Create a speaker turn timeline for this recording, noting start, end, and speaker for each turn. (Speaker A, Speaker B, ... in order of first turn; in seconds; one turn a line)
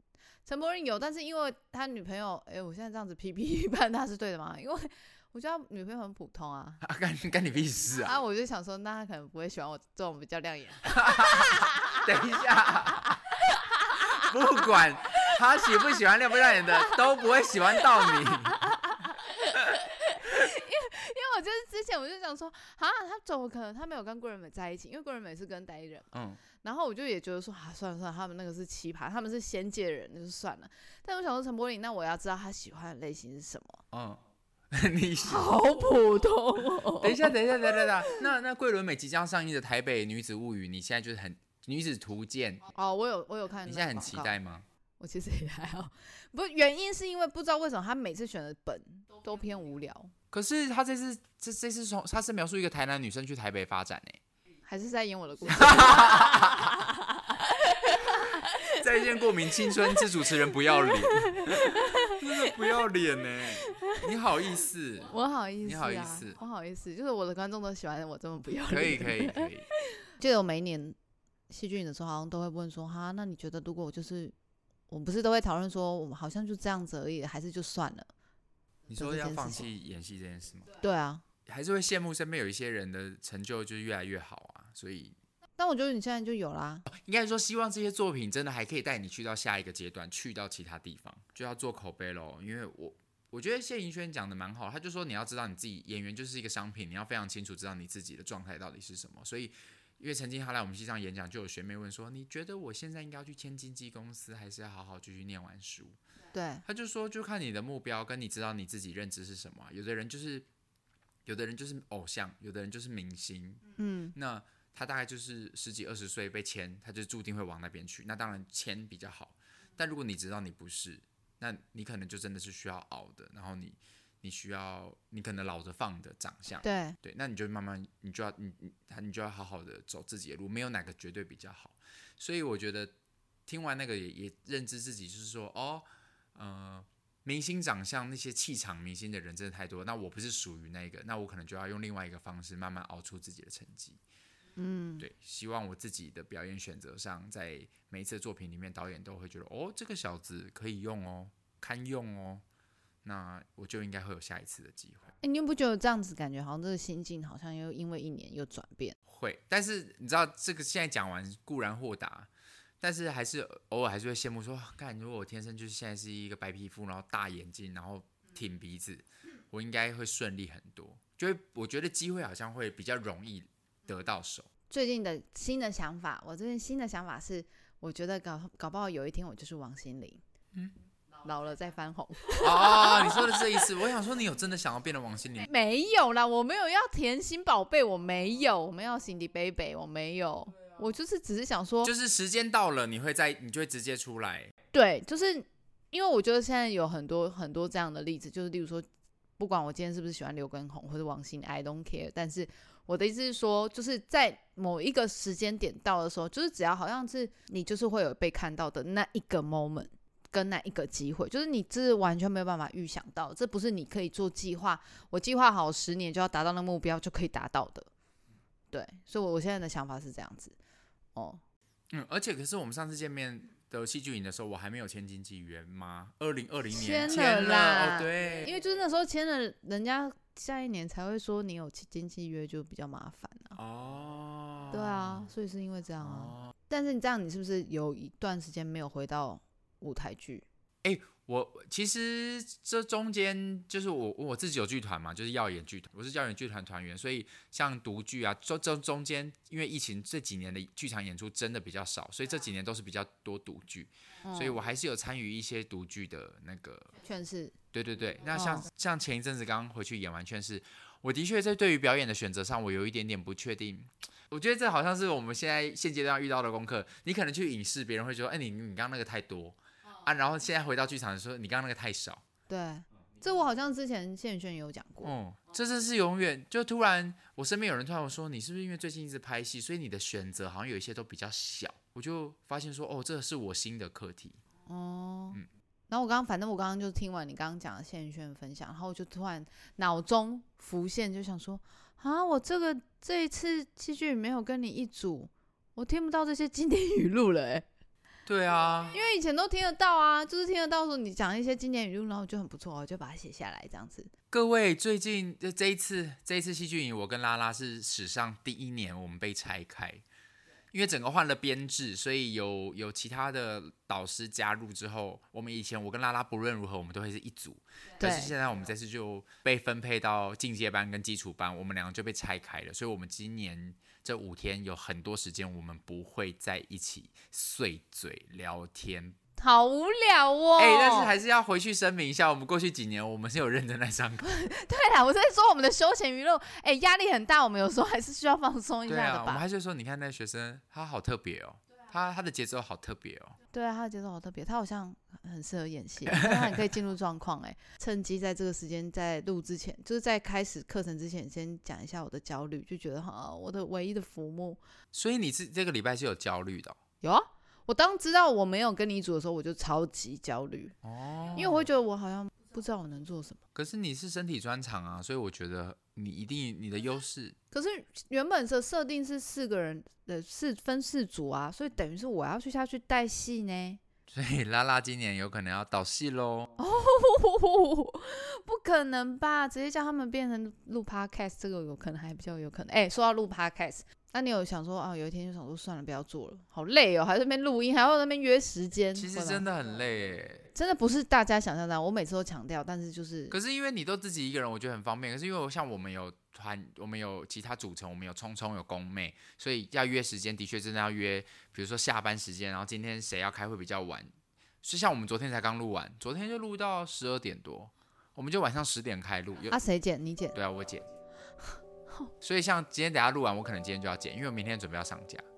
Speaker A: 0.4-6.8
Speaker B: 6.8-8.1
Speaker A: 8.0-12.1
Speaker B: 10.9-13.2
Speaker A: 12.9-14.3
Speaker B: 13.9-18.7
Speaker A: 18.5-33.8
Speaker B: 26.1-26.4
Speaker B: 33.9-35.6
Speaker A: 35.2-38.2
Speaker B: 37.0-42.6
Speaker A: 42.7-44.3
Speaker B: 43.6-44.6
Speaker A: 45.0-50.1
Speaker B: 50.3-54.2
Speaker A: 54.6-62.2
Speaker B: 55.5-56.7
Speaker B: 58.0-66.4
Speaker A: 63.7-63.9
Speaker A: 65.1-71.0
Speaker B: 68.7-69.7
Speaker A: 71.5-74.3
Speaker A: 74.9-78.1
Speaker B: 78.9-80.7
Speaker A: 78.9-79.7
Speaker A: 80.8-81.2
Speaker B: 81.5-85.2
Speaker A: 85.6-86.9
Speaker B: 86.9-106.0
Speaker A: 106.3-106.6
Speaker B: 106.7-110.5
Speaker B: 111.2-132.9
Speaker A: 113.8-114.2
Speaker A: 126.6-127.0
Speaker B: 133.4-144.0
Speaker A: 144.6-145.0
Speaker B: 145.0-152.4
Speaker B: 153.0-155.1
Speaker A: 155.2-159.0
Speaker B: 159.1-162.3
Speaker B: 162.8-174.5
Speaker A: 174.7-180.2
Speaker A: 181.2-183.6
Speaker B: 182.4-185.4
Speaker A: 185.4-191.9
Speaker B: 191.8-194.5
Speaker A: 194.7-198.9
Speaker A: 199.4-217.9
Speaker A: 218.7-220.6
Speaker A: 221.1-221.4
Speaker B: 221.9-228.5
Speaker A: 226.7-233.6
Speaker B: 233.6-235.2
Speaker A: 234.7-240.5
Speaker B: 236.0-236.5
Speaker B: 240.8-256.9
Speaker A: 254.2-254.6
Speaker A: 257.0-257.5
Speaker B: 257.7-272.2
Speaker A: 258.3-258.7
Speaker A: 272.5-275.1
Speaker B: 275.0-284.4
Speaker A: 284.6-285.4
Speaker A: 285.9-297.7
Speaker B: 298.2-299.0
Speaker A: 298.9-304.1
Speaker B: 304.3-310.0
Speaker B: 310.7-329.2
Speaker A: 318.0-318.3
Speaker A: 329.4-331.1
Speaker B: 330.6-334.4
Speaker A: 334.2-339.4
Speaker B: 338.9-343.4
Speaker A: 343.5-354.6
Speaker B: 346.1-346.6
Speaker B: 354.9-356.8
Speaker A: 357.0-360.7
Speaker B: 360.8-361.7
Speaker A: 361.3-363.4
Speaker B: 363.5-367.4
Speaker A: 367.5-373.8
Speaker B: 374.1-376.5
Speaker A: 376.6-389.4
Speaker B: 388.9-390.5
Speaker A: 390.5-393.4
Speaker B: 393.3-409.6
Speaker A: 409.5-410.3
Speaker B: 410.3-410.9
Speaker A: 411.5-412.1
Speaker B: 412.2-415.2